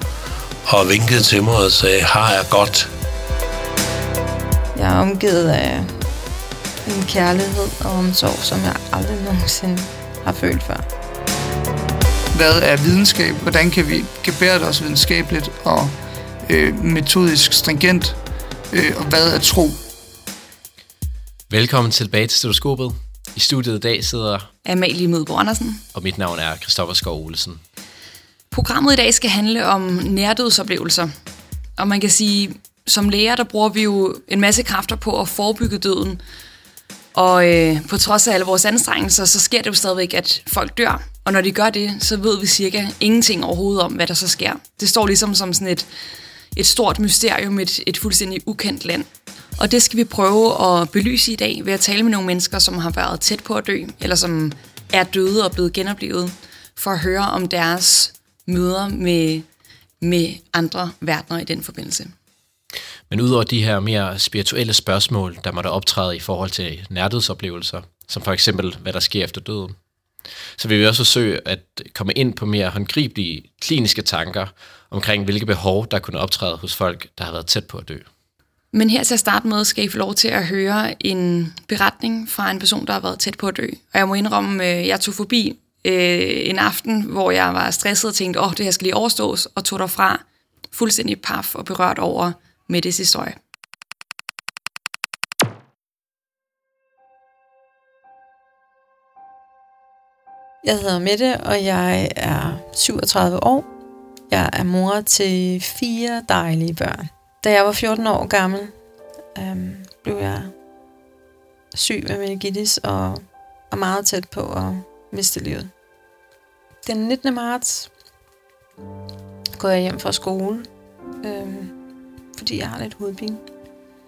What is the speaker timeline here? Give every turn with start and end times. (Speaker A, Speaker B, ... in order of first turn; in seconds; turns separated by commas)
Speaker A: 0.7-2.9, Speaker B: 4.8-5.9, Speaker B: 6.9-10.9, Speaker C: 12.3-18.2, Speaker C: 18.7-19.8, Speaker D: 21.5-24.5, Speaker E: 24.6-25.8, Speaker D: 25.9-27.6, Speaker E: 28.5-31.1, Speaker E: 31.8-36.2, Speaker E: 37.1-45.9, Speaker E: 46.5-59.5, Speaker E: 60.0-62.1, Speaker D: 63.1-69.8, Speaker D: 70.6-78.1, Speaker E: 78.7-93.4, Speaker B: 100.6-103.7, Speaker B: 104.3-108.7, Speaker B: 109.3-110.5, Speaker B: 111.8-115.7, Speaker B: 116.9-117.9, Speaker B: 119.6-120.7, Speaker B: 121.2-121.7, Speaker B: 122.4-123.4